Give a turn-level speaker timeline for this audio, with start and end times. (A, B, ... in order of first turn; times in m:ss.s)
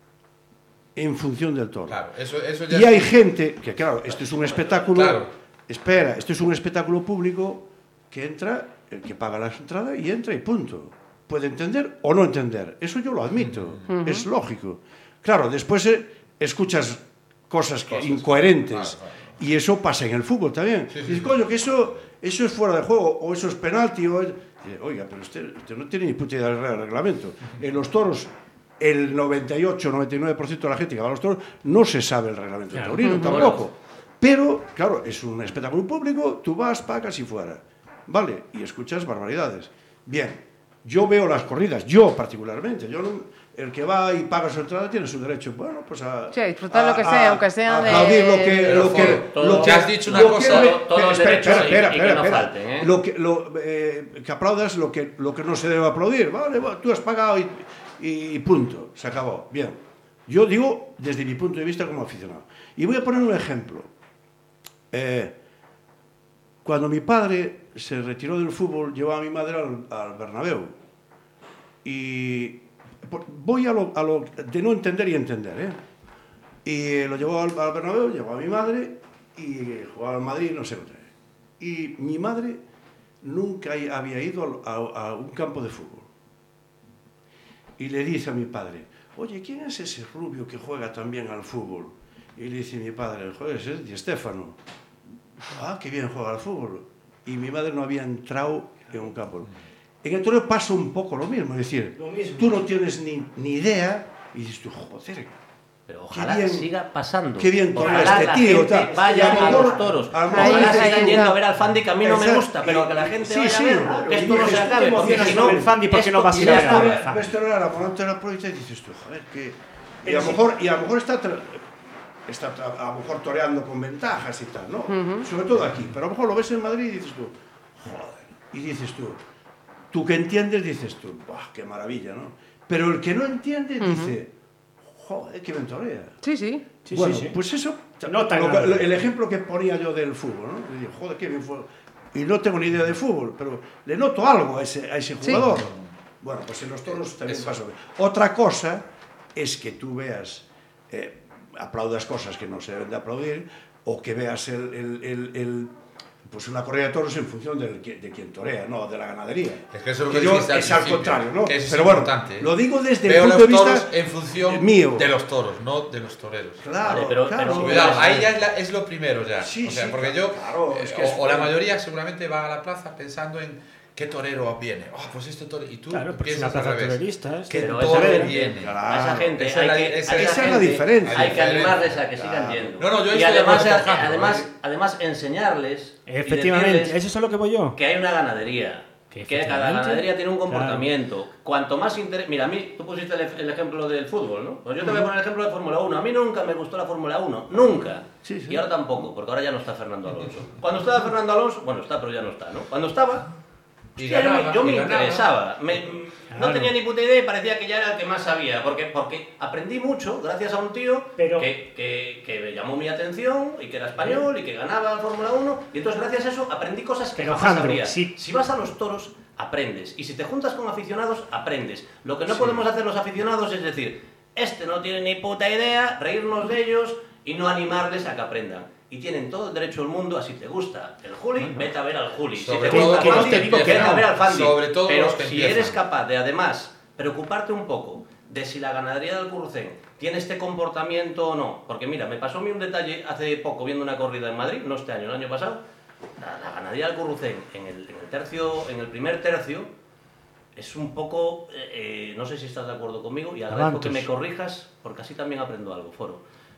0:01.0-0:02.0 A
0:01.9-0:03.1 B
0:02.7-1:03.9 A
0:04.2-0:04.8 C
0:04.9-0:05.3 B
0:13.4-0:13.8 B
0:13.9-0:14.3 D
0:17.9-0:19.3 B
0:20.9-0:21.4 B
0:32.7-0:33.0 E
0:33.0-0:33.4 D
0:33.1-0:33.6 C
0:46.3-0:49.1 D
0:48.6-0:50.8 B
0:48.6-0:52.9 C
1:04.9-1:05.4 A
1:06.6-1:10.8 A
1:11.8-1:15.8 A
1:16.6-1:22.6 A
1:23.2-1:26.1 A
1:27.8-1:34.6 A
1:35.4-1:39.5 A
1:40.0-1:45.3 A
1:42.0-1:42.6 E
1:45.9-1:57.0 C
1:46.1-1:46.7 A
1:47.4-1:51.4 A
1:47.8-1:50.8 E
1:50.3-1:51.4 D
1:52.0-1:55.7 A
1:53.7-1:57.3 E
1:56.3-2:01.6 A
2:00.1-2:00.4 E
2:02.2-2:09.2 A
2:04.9-2:05.3 D
2:09.9-2:14.3 A
2:13.8-2:14.1 D
2:14.8-2:16.2 A
2:16.2-2:16.6 D
2:16.8-2:17.4 E
2:16.9-2:35.7 A
2:18.0-2:18.9 E
2:25.6-2:25.8 B
2:36.2-2:45.1 A
2:39.7-2:42.5 B
2:43.0-2:46.6 B
2:46.6-2:48.2 A
2:46.8-2:48.3 C
2:47.4-2:58.8 B
2:49.4-2:51.5 A
2:55.9-2:58.3 E
2:57.6-3:07.0 C
2:58.3-2:59.4 A
2:59.4-3:04.5 B
3:00.1-3:01.6 A
3:06.0-3:07.8 E
3:07.8-3:23.3 C
3:09.1-3:10.9 E
3:18.2-3:18.6 A
3:24.0-3:25.3 B
3:24.0-4:05.6 C
3:26.3-3:26.7 E
3:31.2-3:31.5 E
3:37.2-3:38.1 E
3:52.4-3:55.8 B
3:52.6-3:54.1 E
4:06.2-4:09.7 C
4:10.5-4:16.2 C
4:13.5-4:14.1 E